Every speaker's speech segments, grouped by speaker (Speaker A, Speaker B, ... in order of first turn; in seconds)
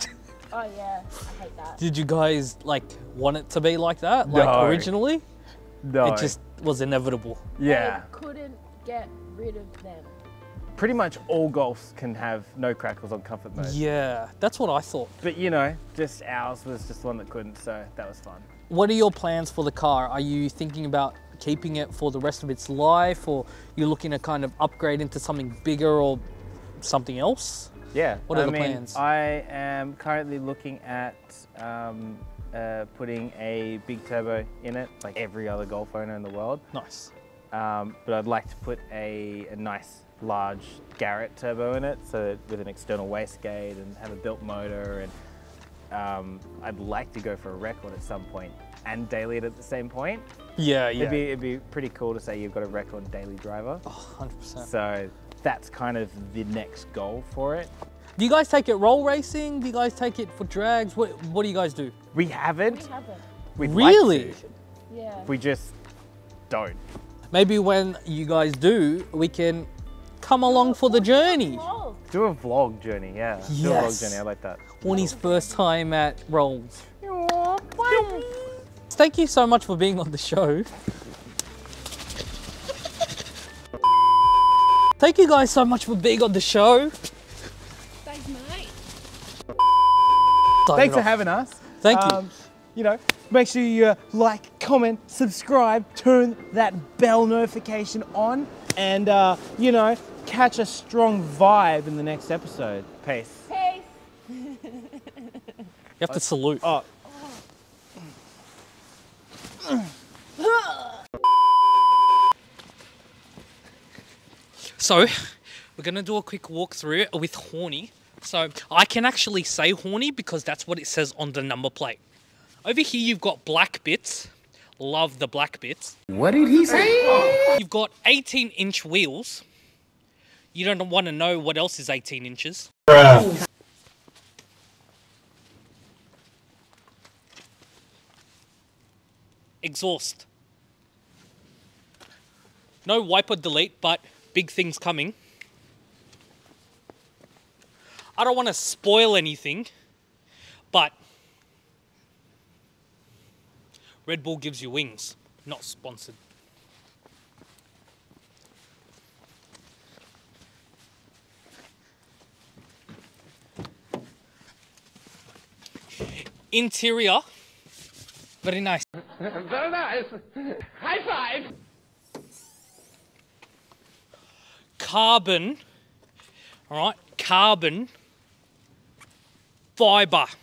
Speaker A: 0.5-1.8, 7.6-10.2, 62.6-63.2, 64.4-65.3, 70.5-72.0, 74.9-75.6, 88.0-88.8, 103.5-105.6, 110.5-110.8
Speaker B: 1.8-5.2, 6.0-7.4, 13.6-15.1, 18.7-26.2, 26.8-27.7, 28.3-29.0, 36.7-37.1, 50.6-51.3, 53.9-54.7, 58.2-61.9, 63.6-64.4, 67.3-69.7, 70.2-71.6, 73.5-74.2, 74.8-76.8, 77.9-78.3, 78.9-80.7, 85.0-86.9, 90.7-91.1, 91.8-92.2, 106.0-106.7, 114.8-122.0, 122.6-126.0, 127.4-129.4, 130.5-132.7, 139.6-140.3, 142.8-145.2, 148.2-149.7, 154.1-156.2, 166.5-167.2, 168.4-168.9, 174.8-175.6, 176.7-177.9, 179.8-180.3
Speaker C: 4.2-4.9, 5.8-6.4, 7.6-8.1, 10.8-13.8, 15.2-18.5, 27.9-36.6, 37.5-45.1, 45.9-50.3, 51.0-53.8, 54.6-57.7, 62.1-62.9, 63.6-64.4, 65.3-65.8, 66.5-66.8, 72.1-75.1, 77.0-78.3, 90.7-103.5, 106.1-106.9
Speaker D: 126.1-127.2, 132.9-133.2, 169.4-170.1